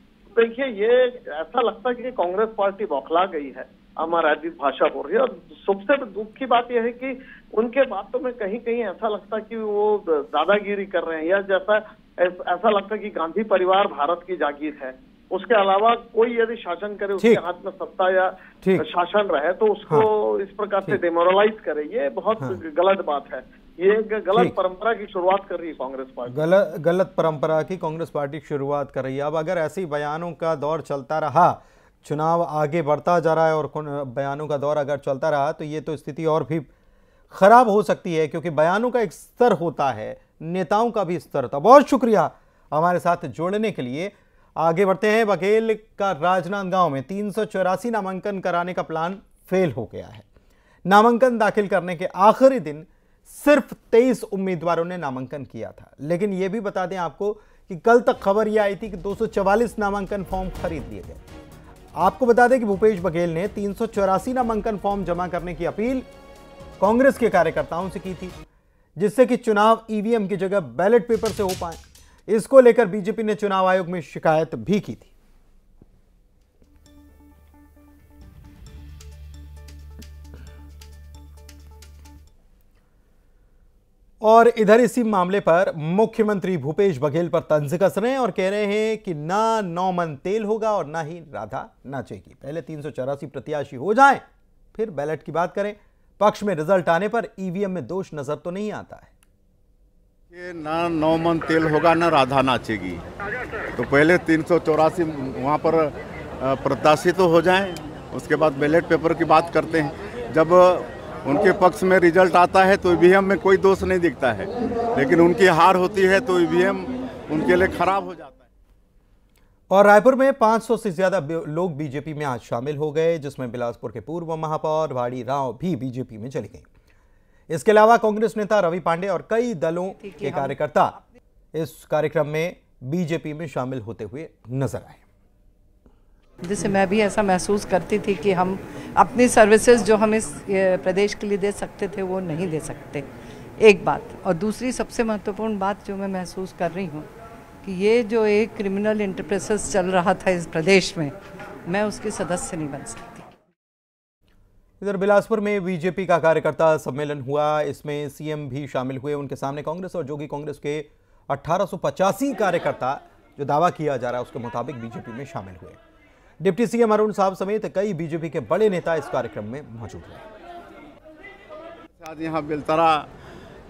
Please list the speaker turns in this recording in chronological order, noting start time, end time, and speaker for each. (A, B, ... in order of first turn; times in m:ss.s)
0:00.3-0:26.4 A
0:17.2-0:17.4 B
0:26.3-0:36.7 B
0:37.3-0:50.2 B
0:50.8-1:01.2 B
1:02.0-1:06.1 B
1:06.8-1:08.4 B
1:09.0-1:15.1 B
1:24.2-1:34.2 B
1:34.7-1:39.1 B
1:40.3-1:43.0 C
1:43.7-1:58.5 C
1:59.7-2:06.6 B
2:07.5-2:11.0 B
2:10.0-2:10.6 D
2:11.5-2:15.0 B
2:16.4-2:23.1 D
2:23.6-2:27.1 D
2:27.6-2:31.1 D
2:31.6-2:33.2 D
2:34.8-2:45.8 B
2:46.4-2:50.2 B
2:52.0-2:53.1 C